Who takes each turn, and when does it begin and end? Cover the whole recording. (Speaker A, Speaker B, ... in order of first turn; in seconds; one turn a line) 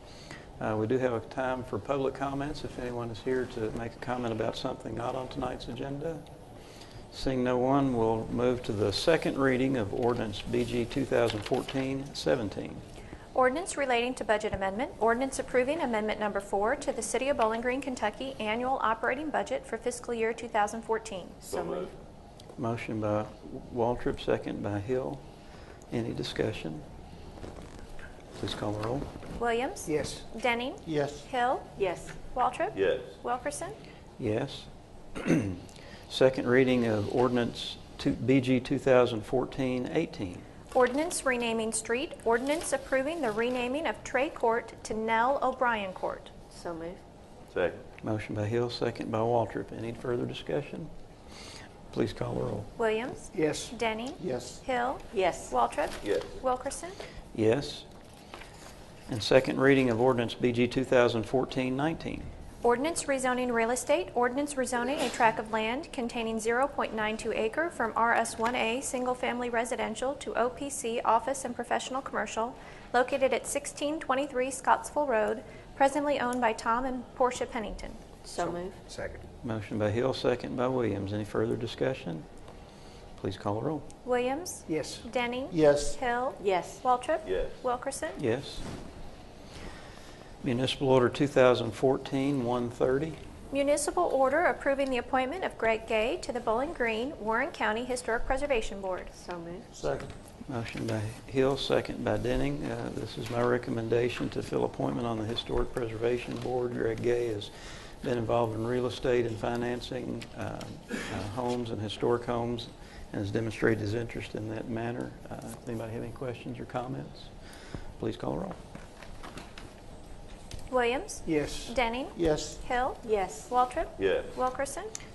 Speaker A: 0.6-6.2
Speaker A: 7.1-12.8
Speaker B: 13.3-21.4
Speaker C: 21.4-21.9
Speaker D: 21.6-21.9
Speaker A: 22.6-25.2
Speaker A: 25.9-26.8
Speaker A: 28.4-29.1
Speaker B: 29.4-31.7
Speaker E: 29.9-30.3
Speaker E: 30.9-31.3
Speaker C: 31.8-32.1
Speaker B: 32.3-33.8
Speaker D: 32.8-33.2
Speaker A: 34.2-40.5
Speaker B: 40.7-46.3
Speaker C: 46.5-47.0
Speaker D: 47.5-47.8
Speaker A: 48.0-50.9
Speaker A: 51.9-52.7
Speaker B: 52.8-57.0
Speaker E: 53.3-54.6
Speaker C: 55.1-55.5
Speaker D: 56.0-56.3
Speaker A: 57.3-57.9
Speaker A: 59.1-62.3
Speaker B: 62.6-78.0
Speaker C: 78.2-78.8
Speaker E: 78.4-79.2
Speaker A: 79.4-82.2
Speaker A: 83.2-83.9
Speaker B: 84.0-88.2
Speaker E: 84.7-86.0
Speaker C: 86.4-86.8
Speaker D: 87.2-87.6
Speaker A: 88.2-88.7
Speaker A: 90.4-93.2
Speaker B: 93.5-99.1
Speaker C: 99.2-99.7
Speaker A: 99.8-117.3
Speaker A: 118.0-118.6
Speaker B: 120.7-124.9
Speaker E: 121.3-122.6
Speaker C: 123.0-123.5
Speaker D: 124.0-124.3